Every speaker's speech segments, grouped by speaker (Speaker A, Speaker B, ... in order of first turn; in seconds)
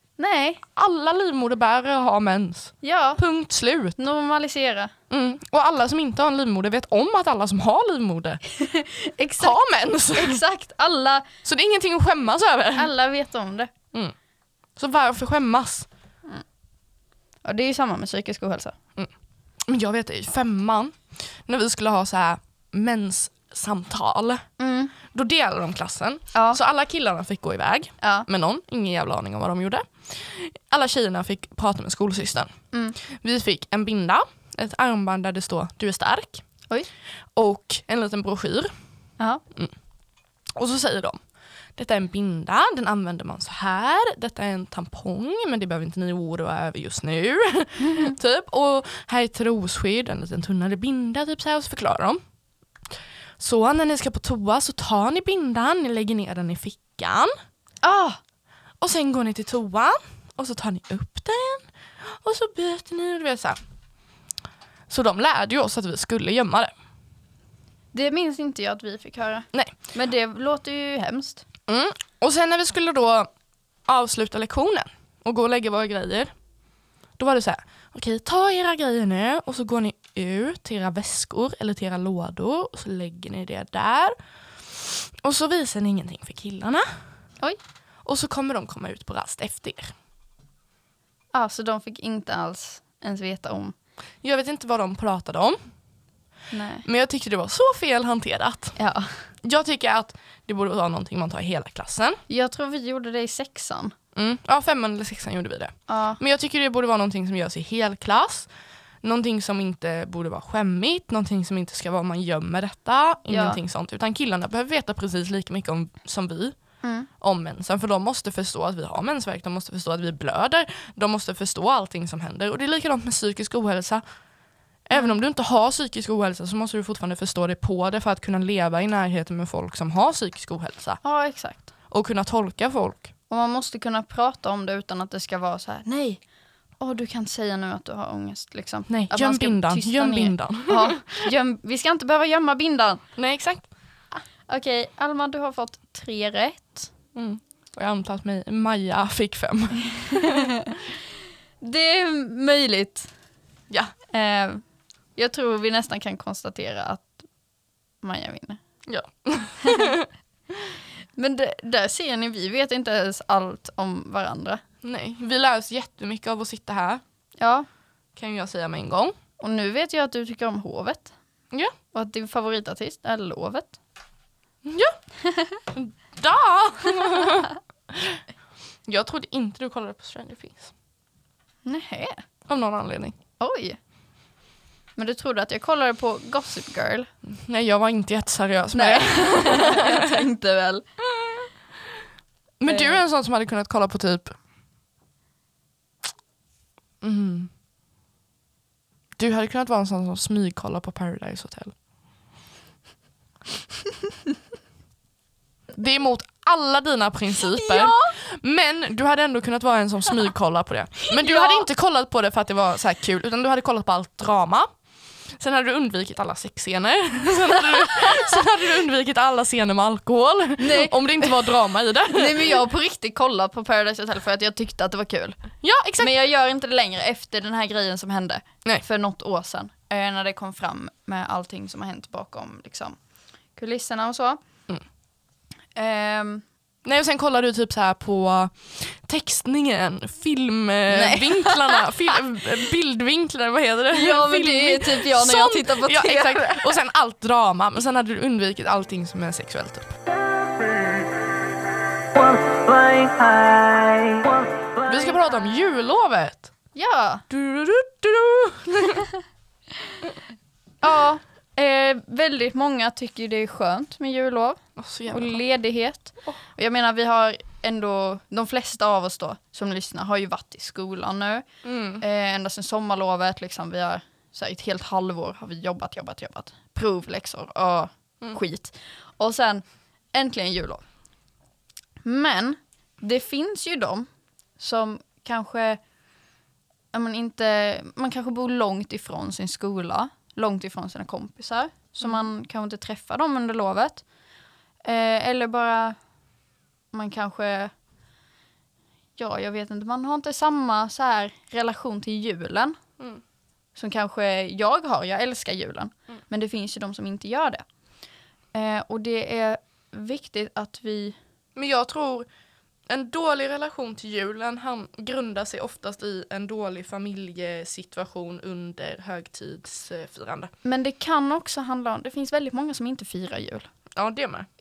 Speaker A: 0.2-0.6, 2.8-3.2, 4.0-4.9, 8.6-9.6, 10.1-11.3, 12.8-13.7, 17.4-18.8, 24.6-24.9, 28.0-28.3, 47.8-48.1, 57.8-58.2, 67.9-71.5, 91.3-93.8, 96.5-96.9, 98.8-99.2, 102.3-103.9, 105.9-106.2, 113.3-113.6, 116.8-117.1, 131.0-131.7, 133.3-136.2, 136.8-143.0, 144.5-146.9, 151.6-153.1, 154.1-154.6, 155.2-157.2, 158.0-158.6, 159.6-159.9, 161.2-164.6, 167.4-167.7, 169.4-171.1, 171.9-173.8, 175.2-175.6, 181.7-182.2, 183.4-183.8, 185.0-187.1, 188.7-190.8, 192.7-193.0, 207.5-208.1, 211.1-211.7, 220.6-221.3, 222.1-233.0, 233.5-234.4, 235.8-236.4, 240.9-241.8, 243.9-246.8, 256.8-257.3, 260.8-271.5, 272.0-280.9, 282.0-285.8, 286.9-294.1, 294.8-296.0, 296.9-297.7, 299.2-302.8, 303.8-307.7, 308.5-311.2, 320.6-323.7
Speaker B: 0.8-4.0, 5.1-8.4, 9.4-10.4, 11.4-12.9, 14.8-15.9, 19.7-24.4, 25.1-32.5, 33.0-36.5, 37.4-38.7, 40.6-41.2, 41.8-52.2, 53.4-57.3, 58.8-63.6, 64.9-66.7, 71.7-73.3, 73.8-76.3, 77.2-84.2, 84.7-86.9, 88.0-89.9, 94.2-95.6, 96.8-98.8, 99.4-102.2, 104.2-108.5, 109.0-124.0, 124.9-131.0, 131.9-133.1, 138.9-141.2, 143.2-143.7, 147.2-150.5, 158.9-160.1, 164.8-167.0, 168.2-169.2, 174.7-174.9, 175.7-178.2, 178.9-180.7, 182.5-183.2, 187.3-190.1, 192.6-194.4, 197.0-197.5, 199.2-201.7, 205.8-214.7, 215.3-222.6, 225.6-226.1, 236.8-249.9, 254.8-256.5, 257.3-259.0, 264.8-265.4, 271.6-272.0, 292.0-292.3, 311.6-312.3, 312.9-320.5, 324.0-324.5